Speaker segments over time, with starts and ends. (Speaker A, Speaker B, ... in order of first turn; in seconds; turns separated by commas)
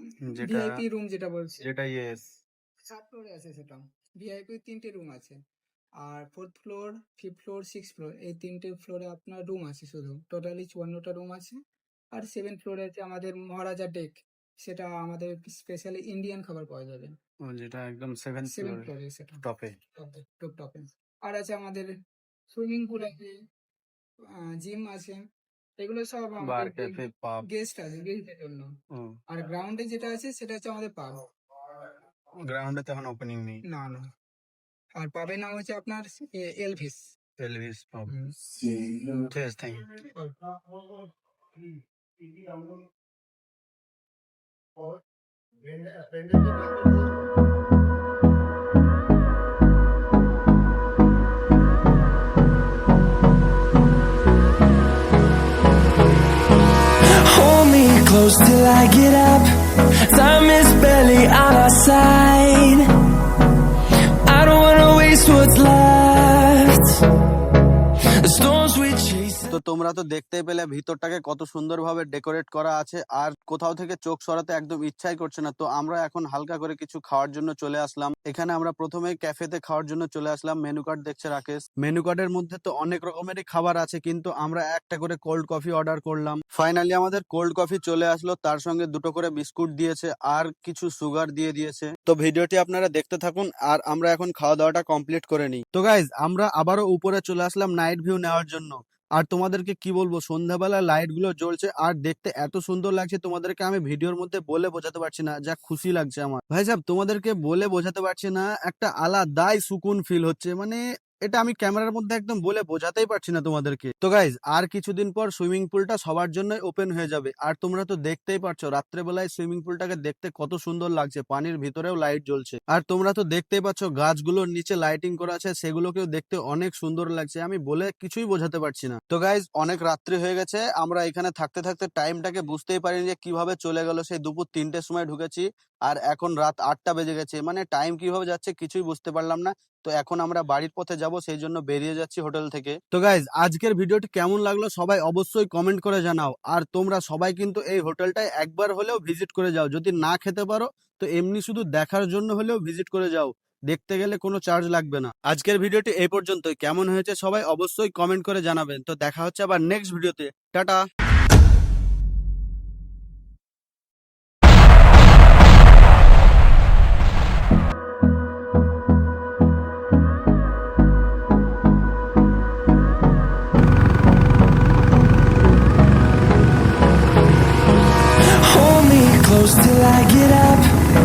Speaker A: 0.3-0.8, Speaker B: 0.4-1.6, Speaker A: 1.6-2.3, Speaker B: 2.9-5.4, Speaker B: 6.0-11.6, Speaker B: 12.1-17.1, Speaker A: 17.4-19.8, Speaker B: 18.5-19.4, Speaker B: 20.0-21.9, Speaker B: 22.5-23.4, Speaker B: 24.6-25.2, Speaker B: 25.8-28.7, Speaker A: 26.4-27.5, Speaker A: 28.9-29.2, Speaker B: 29.3-31.2, Speaker A: 32.4-33.6, Speaker B: 33.7-34.0, Speaker B: 35.0-37.1, Speaker A: 37.4-40.0, Speaker B: 38.1-38.4, Speaker B: 40.1-40.4, Speaker A: 42.4-42.7, Speaker A: 45.7-47.0, Speaker C: 57.1-59.5, Speaker C: 60.0-62.9, Speaker C: 64.2-67.0, Speaker C: 68.2-69.6, Speaker A: 69.5-160.8, Speaker C: 178.4-180.7